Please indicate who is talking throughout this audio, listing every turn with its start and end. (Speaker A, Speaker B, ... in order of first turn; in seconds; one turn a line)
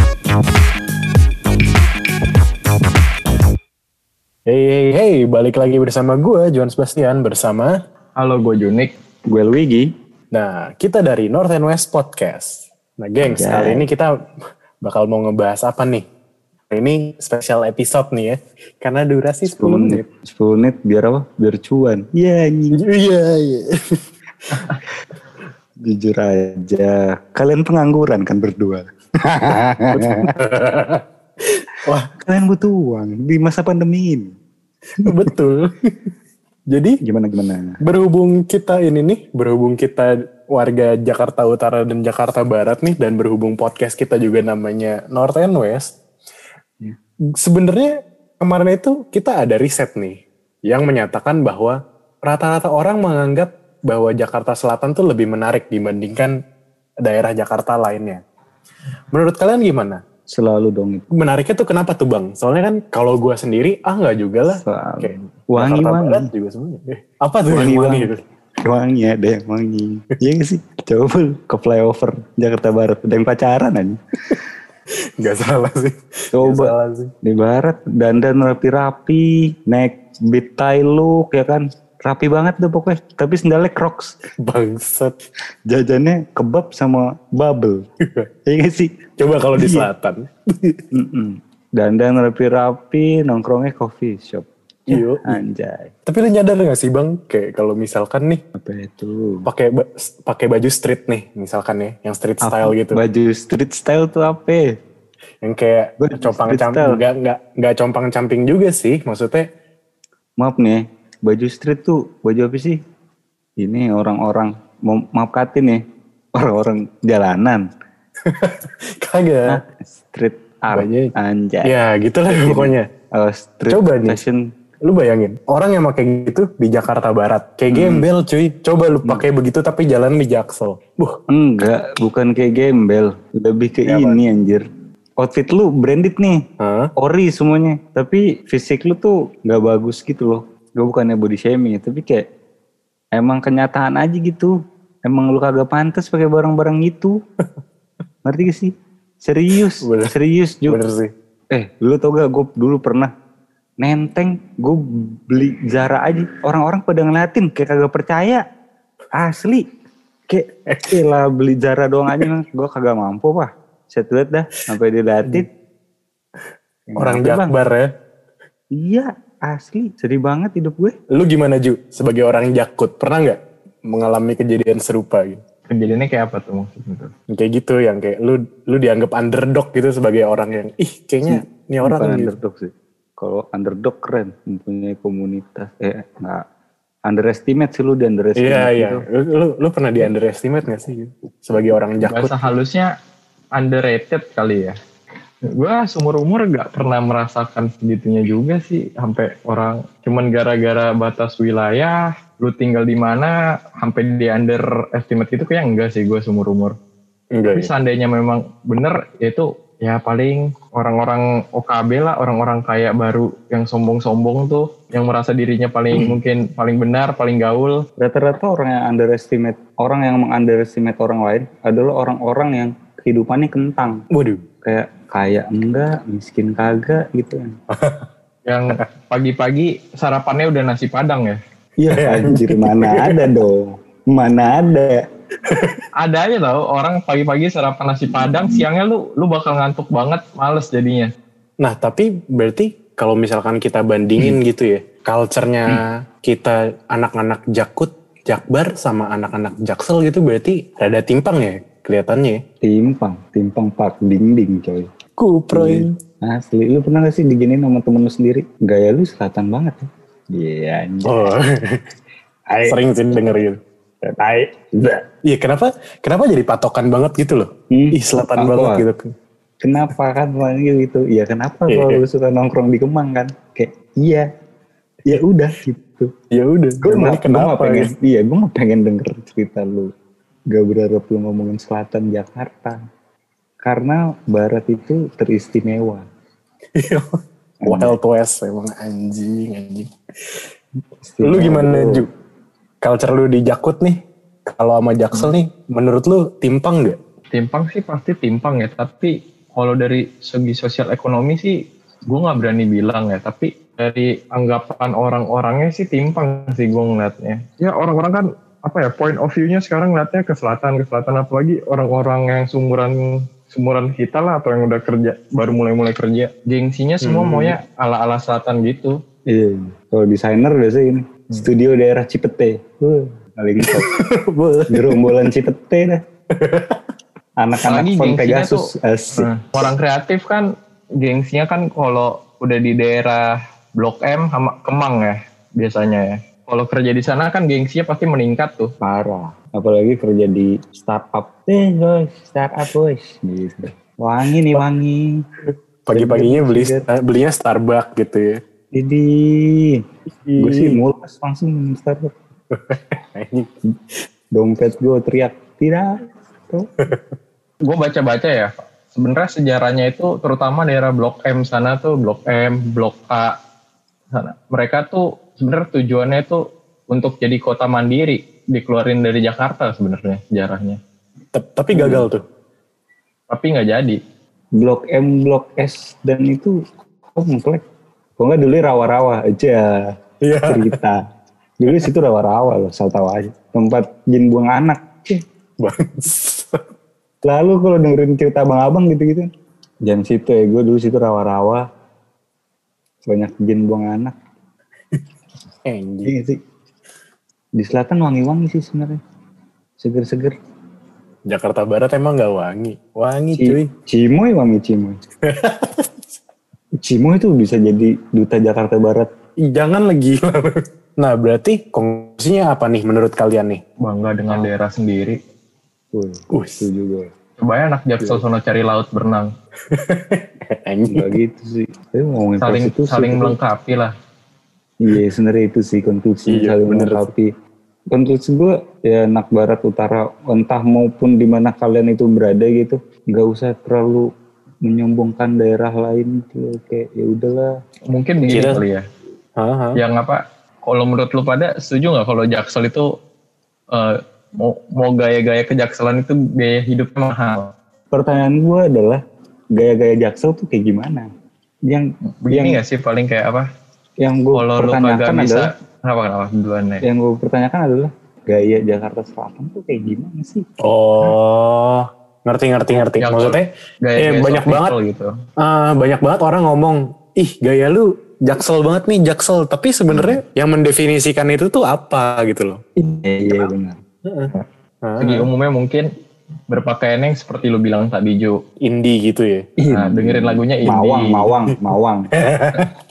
Speaker A: 4.5-7.7
Speaker B: 8.2-8.9
Speaker C: 9.3-9.9
Speaker A: 10.3-14.1
Speaker C: 13.2-13.8
Speaker A: 14.8-16.1
Speaker A: 16.7-20.0
Speaker C: 19.5-22.8
Speaker A: 22.7-23.7
Speaker A: 24.5-24.7
Speaker C: 25.8-30.3
Speaker A: 30.0-31.0
Speaker A: 31.8-32.1
Speaker C: 32.2-34.3
Speaker A: 35.0-35.7
Speaker A: 36.7-37.0
Speaker C: 37.0-37.8
Speaker A: 37.8-45.9
Speaker A: 47.4-56.3
Speaker A: 57.0-58.2
Speaker A: 59.1-60.0
Speaker C: 60.3-61.0
Speaker A: 61.1-68.2
Speaker C: 64.6-66.3
Speaker C: 67.5-68.1
Speaker C: 68.6-74.0
Speaker A: 75.2-77.1
Speaker C: 76.3-84.2
Speaker A: 84.4-85.1
Speaker C: 85.7-87.8
Speaker C: 88.5-89.0
Speaker A: 89.2-90.8
Speaker C: 89.5-89.9
Speaker C: 90.9-95.9
Speaker A: 94.9-95.4
Speaker A: 96.0-98.4
Speaker C: 98.6-99.5
Speaker A: 99.4-103.0
Speaker C: 102.4-104.6
Speaker A: 105.4-109.5
Speaker C: 106.0-107.0
Speaker C: 110.4-112.8
Speaker C: 113.6-115.8
Speaker C: 116.3-117.7
Speaker A: 118.3-119.6
Speaker C: 119.5-121.7
Speaker A: 120.7-121.1
Speaker A: 121.6-122.8
Speaker C: 122.3-124.4
Speaker A: 123.7-124.2
Speaker A: 124.8-131.2
Speaker C: 127.7-128.1
Speaker C: 131.3-134.6
Speaker A: 133.8-134.2
Speaker C: 135.2-136.4
Speaker A: 136.6-136.9
Speaker C: 137.0-142.2
Speaker C: 143.2-144.5
Speaker C: 145.1-147.1
Speaker C: 148.2-150.8
Speaker A: 149.7-150.1
Speaker A: 150.7-151.1
Speaker C: 151.5-153.1
Speaker C: 153.8-158.4
Speaker C: 159.2-159.7
Speaker C: 160.3-165.5
Speaker A: 160.7-161.0
Speaker C: 166.9-167.6
Speaker A: 167.0-167.9
Speaker C: 168.7-170.9
Speaker A: 171.1-175.4
Speaker B: 175.7-177.1
Speaker A: 177.3-182.3
Speaker C: 181.3-186.4
Speaker C: 187.1-189.1
Speaker A: 188.4-192.3
Speaker B: 192.0-192.9
Speaker B: 193.6-194.8
Speaker B: 195.6-206.8
Speaker A: 207.3-207.7
Speaker B: 207.5-217.8
Speaker C: 218.0-224.0
Speaker A: 224.1-224.4
Speaker C: 224.6-227.5
Speaker A: 227.7-228.1
Speaker B: 228.5-231.4
Speaker C: 231.8-235.0
Speaker A: 231.9-233.3
Speaker A: 235.5-235.8
Speaker B: 236.0-241.1
Speaker A: 241.6-252.4
Speaker C: 252.6-254.9
Speaker A: 255.2-255.9
Speaker C: 255.5-261.3
Speaker A: 261.0-261.8
Speaker C: 262.5-262.8
Speaker A: 262.6-263.6
Speaker C: 264.0-265.0
Speaker A: 265.2-269.1
Speaker C: 267.7-268.9
Speaker C: 269.6-274.2
Speaker A: 271.7-272.0
Speaker C: 275.1-276.1
Speaker A: 276.3-277.9
Speaker C: 276.8-279.9
Speaker C: 280.5-282.7
Speaker C: 283.6-286.1
Speaker A: 286.8-287.0
Speaker C: 287.6-287.9
Speaker A: 287.6-289.9
Speaker C: 291.1-292.0
Speaker A: 291.2-292.1
Speaker A: 292.8-297.0
Speaker B: 297.3-301.5
Speaker B: 302.1-318.9
Speaker A: 317.0-317.6
Speaker C: 319.3-323.9
Speaker A: 323.6-325.2
Speaker C: 324.7-326.0
Speaker A: 326.4-326.8
Speaker C: 327.4-329.3
Speaker B: 327.6-328.6
Speaker B: 329.1-330.4
Speaker B: 331.0-338.7
Speaker C: 338.8-345.2
Speaker A: 345.4-348.4
Speaker C: 345.9-346.9
Speaker C: 348.7-349.8
Speaker A: 350.1-350.8
Speaker C: 350.4-352.1
Speaker A: 352.5-353.5
Speaker C: 354.3-355.9
Speaker B: 357.6-363.3
Speaker B: 364.1-366.4
Speaker B: 366.9-370.8
Speaker A: 371.3-372.2
Speaker C: 371.7-372.1
Speaker B: 373.3-374.0
Speaker C: 374.6-376.5
Speaker C: 377.1-377.6
Speaker C: 378.2-379.7
Speaker A: 380.2-380.7
Speaker C: 380.5-381.0
Speaker C: 381.6-385.2
Speaker A: 385.6-386.6
Speaker C: 387.2-389.3
Speaker C: 389.9-391.6
Speaker C: 393.1-394.1
Speaker A: 395.6-396.1
Speaker C: 396.0-396.4
Speaker C: 397.6-399.0
Speaker C: 399.8-400.3
Speaker A: 401.3-403.7
Speaker C: 403.3-405.0
Speaker A: 405.2-405.9
Speaker C: 406.8-409.1
Speaker A: 409.4-413.6
Speaker B: 413.8-415.2
Speaker C: 415.9-417.1
Speaker A: 416.3-416.6
Speaker B: 417.4-419.3
Speaker A: 419.7-421.2
Speaker C: 420.9-423.4
Speaker B: 422.4-423.9
Speaker C: 424.8-427.3
Speaker A: 426.3-427.1
Speaker C: 427.9-434.0
Speaker C: 434.6-437.5
Speaker B: 437.9-438.8
Speaker A: 438.3-438.6
Speaker A: 439.4-439.8
Speaker B: 439.8-442.9
Speaker B: 443.7-447.5
Speaker C: 447.9-449.0
Speaker C: 449.5-451.1
Speaker C: 451.7-452.6
Speaker B: 452.2-453.4
Speaker C: 454.0-455.5
Speaker B: 454.3-456.8
Speaker C: 456.8-460.4
Speaker A: 460.6-464.7
Speaker B: 463.0-465.1
Speaker A: 465.4-472.6
Speaker C: 469.9-470.2
Speaker C: 472.8-473.8
Speaker A: 474.0-474.3
Speaker A: 474.8-475.3
Speaker B: 475.0-475.9
Speaker B: 476.5-478.4
Speaker A: 478.6-479.5
Speaker C: 479.6-482.1
Speaker B: 479.7-481.3
Speaker A: 482.1-482.7